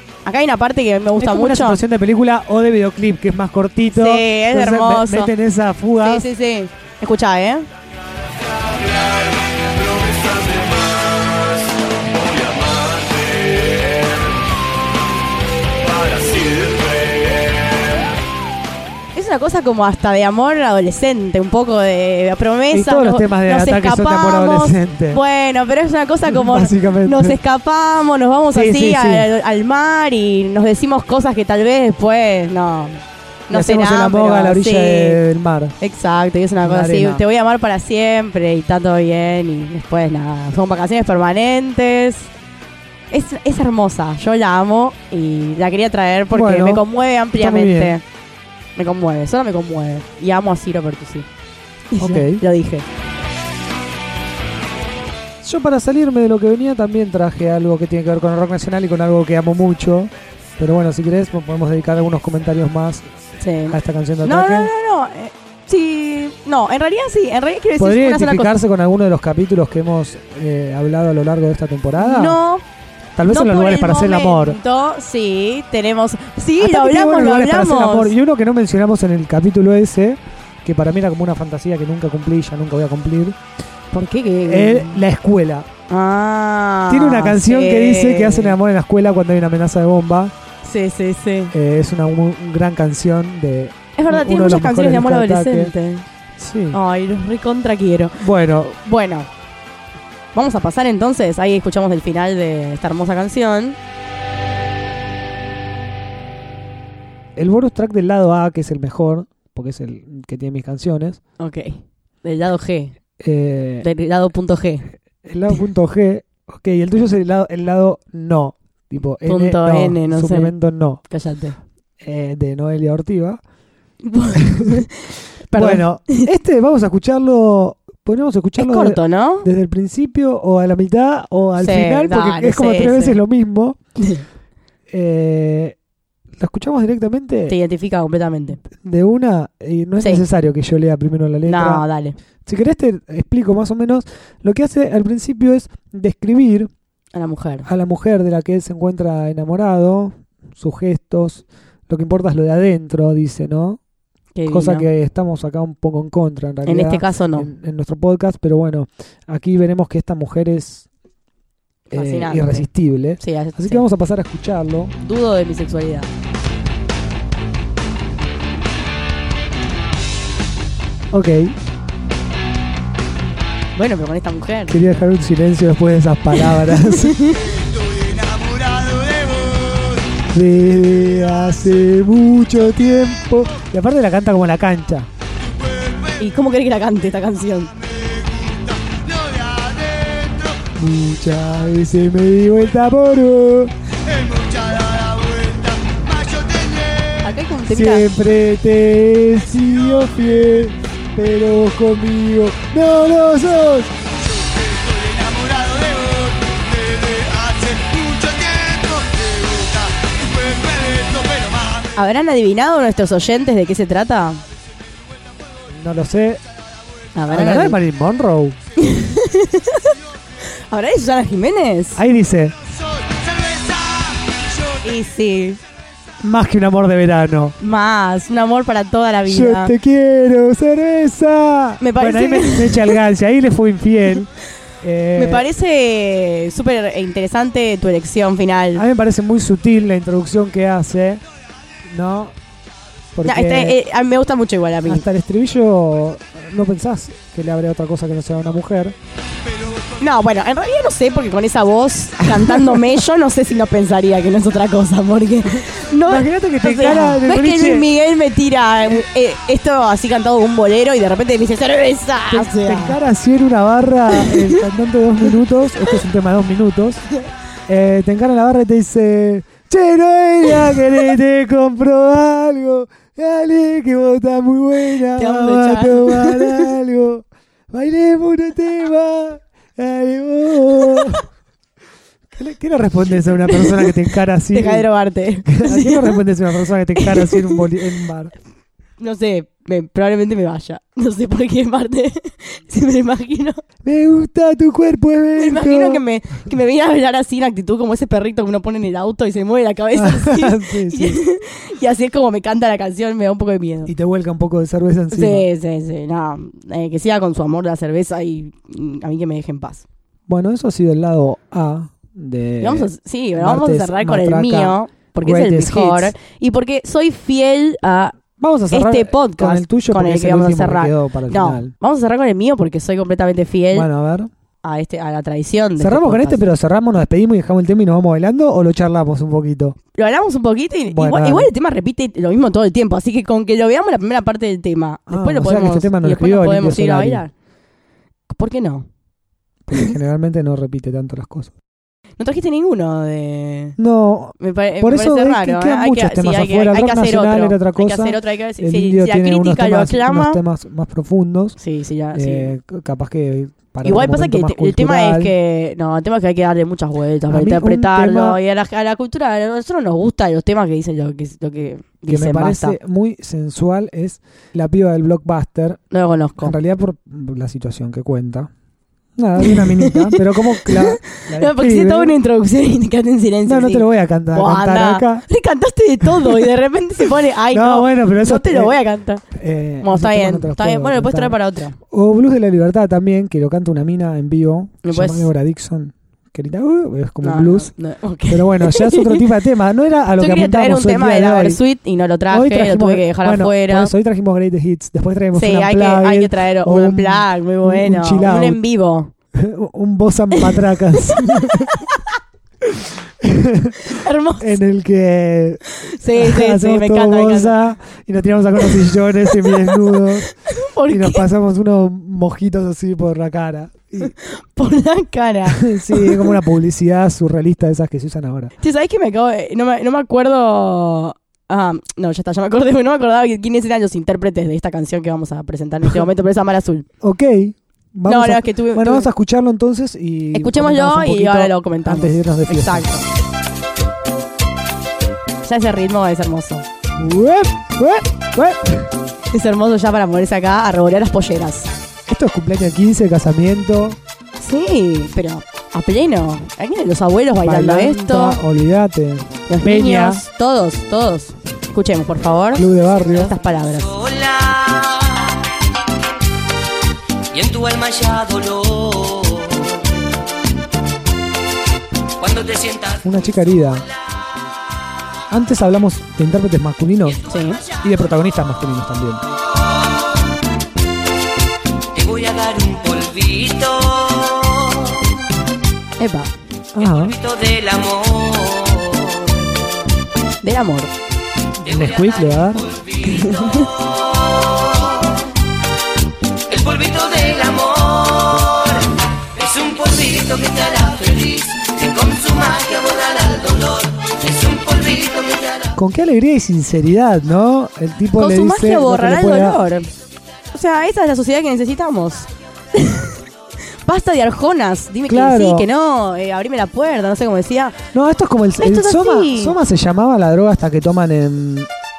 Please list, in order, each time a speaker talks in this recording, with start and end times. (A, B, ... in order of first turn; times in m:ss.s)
0:00.2-0:01.8 A
0:01.2-0:06.2 B
0:03.9-0:05.3 A
0:06.0-0:07.7 A
0:08.4-0:14.4 C
0:15.8-0:18.0 C
0:19.1-0:35.2 A
0:22.7-0:25.2 B
0:26.3-0:27.4 B
0:28.5-0:29.3 B
0:33.5-0:35.7 B
0:35.8-0:42.3 A
0:36.6-0:37.2 B
0:43.1-0:48.0 A
0:46.3-0:46.8 B
0:47.4-0:48.0 B
0:48.8-0:51.3 A
0:51.9-0:52.8 A
0:52.0-0:52.4 B
0:55.4-1:03.1 B
1:03.4-1:08.6 A
1:03.7-1:04.7 B
1:07.8-1:12.4 B
1:12.0-1:12.6 A
1:13.2-1:14.6 B
1:13.3-1:18.1 A
1:16.6-1:23.4 B
1:23.9-1:25.0 A
1:24.4-1:25.7 B
1:25.9-1:28.5 A
1:26.9-1:30.3 B
1:30.6-1:31.5 A
1:31.5-1:35.7 B
1:34.0-1:36.0 A
1:36.4-1:36.8 B
1:36.7-1:38.2 A
1:38.2-1:38.8 B
1:38.8-1:39.3 A
1:40.3-1:43.8 A
1:47.4-1:51.2 B
1:51.4-1:52.9 A
1:53.2-1:53.9 B
1:53.8-1:54.9 A
1:55.2-2:01.0 B
1:59.2-2:00.5 A
2:01.1-2:01.6 A
2:02.0-2:03.4 B
2:04.0-2:06.3 A
2:04.4-2:04.9 B
2:05.5-2:13.8 B
2:08.6-2:09.5 A
2:11.6-2:13.2 A
2:14.0-2:14.2 A
2:14.9-2:15.8 B
2:16.4-2:17.6 B
2:17.5-2:18.6 A
2:18.7-2:21.8 B
2:20.0-2:20.2 A
2:21.4-2:22.2 A
2:22.4-2:26.7 B
2:27.1-2:27.7 A
2:27.6-2:33.8 B
2:34.3-2:34.9 A
2:34.5-2:40.8 B
2:36.6-2:37.5 A
2:41.9-2:42.7 A
2:41.9-2:44.9 B
2:43.2-2:43.8 A
2:45.0-2:46.1 A
2:51.1-2:51.6 B
2:53.8-2:54.8 A
2:54.7-2:57.2 B
2:56.4-2:57.6 A
2:57.6-3:00.2 C
3:00.3-3:05.1 B
3:05.8-3:06.2 C
3:06.2-3:07.7 A
3:08.2-3:10.5 C
3:10.8-3:13.7 B
3:14.1-3:17.2 C
3:17.2-3:18.1 A
3:17.7-3:23.9 B
3:24.6-3:31.8 C
3:32.0-3:34.4 A
3:35.7-3:36.4 B
3:37.1-3:37.8 A
3:37.3-3:38.6 B
3:38.8-3:40.0 A
3:40.7-3:42.0 A
3:42.0-3:42.6 B
3:44.8-3:45.6 A
3:46.2-3:47.5 B
3:47.6-3:49.7 A
3:49.2-3:55.5 B
3:51.8-3:53.0 A
3:55.2-3:58.8 A
3:58.7-4:01.2 B
4:01.8-4:02.3 B
4:03.1-4:03.8 B
4:03.2-4:05.0 A
4:04.8-4:09.0 B
4:10.0-4:23.0 A
4:12.2-4:12.8 B
4:16.0-4:17.9 B
4:22.3-4:27.0 B
4:24.1-4:24.6 A
4:27.7-4:41.2 B
4:35.1-4:36.7 A
4:42.3-4:44.9 B
4:43.5-4:43.9 A
4:44.5-4:46.2 A
4:45.4-4:48.3 B
4:46.9-4:47.6 A
4:49.0-4:53.6 A
4:53.8-4:56.0 B
4:55.4-5:03.9 A
4:59.9-5:01.2 B
5:03.9-5:05.5 B
5:05.1-5:09.8 A
5:10.3-5:16.1 B
5:12.6-5:18.2 A
5:18.4-5:21.7 B
5:18.7-5:23.9 A
5:23.7-5:24.3 B
5:24.6-5:26.4 A
5:25.8-5:29.8 B
5:30.0-5:37.3 A
5:30.9-5:31.5 B
5:35.1-5:37.2 B
5:38.3-5:38.9 A
5:39.7-5:41.5 B
5:42.2-5:43.8 A
5:43.8-5:51.6 B
5:44.4-5:50.4 A
5:51.6-5:52.5 A
5:52.1-5:55.3 B
5:53.8-6:02.8 A
5:57.3-5:58.4 B
6:02.1-6:05.8 B
6:05.9-6:06.5 A
6:06.4-6:08.5 B
6:09.2-6:12.2 B
6:09.4-6:19.2 A
6:13.4-6:15.2 B
6:16.2-6:16.5 B
6:17.5-6:18.8 B
6:19.3-6:21.4 B
6:19.8-6:21.8 A
6:21.9-6:27.7 B
6:24.8-6:25.3 A
6:27.2-6:29.3 A
6:28.3-6:31.6 B
6:30.2-6:33.9 A
6:32.3-6:38.6 B
6:35.3-6:39.1 A
6:39.3-6:41.8 B
6:40.4-6:42.0 A
6:42.6-6:43.8 B
6:43.8-6:44.6 A
6:44.4-6:50.3 B
6:45.8-6:47.5 A
6:48.6-6:51.2 A
6:50.9-6:54.1 B
6:54.0-6:56.4 A
6:55.5-6:58.5 B
6:58.6-7:06.8 A
7:07.0-7:12.9 B
7:08.0-7:09.1 A
7:10.3-7:13.0 A
7:15.4-7:16.6 A
7:17.0-7:18.9 B
7:19.3-7:21.7 A
7:22.1-7:24.0 B
7:24.4-7:28.4 A
7:27.4-7:30.2 B
7:29.5-7:33.9 A
7:32.5-7:33.3 B
7:33.8-7:35.4 D
7:37.3-7:40.1 D
7:42.2-7:43.2 D
7:43.0-7:43.8 B
7:45.3-7:47.2 B
7:47.3-7:47.6 A
7:47.8-7:49.2 B
7:51.9-7:55.1 D
7:56.0-7:56.3 A
7:56.7-7:57.2 B
7:56.8-7:59.6 D
8:00.4-8:00.9 A
8:01.6-8:05.2 D
8:01.6-8:02.7 B
8:03.0-8:03.7 A
8:06.5-8:15.8 D
8:15.8-8:19.6 B
8:18.2-8:19.9 A
8:20.5-8:23.2 A
8:23.8-8:27.8 A
8:25.1-8:25.7 B
8:27.9-8:31.7 B
8:28.6-8:29.6 A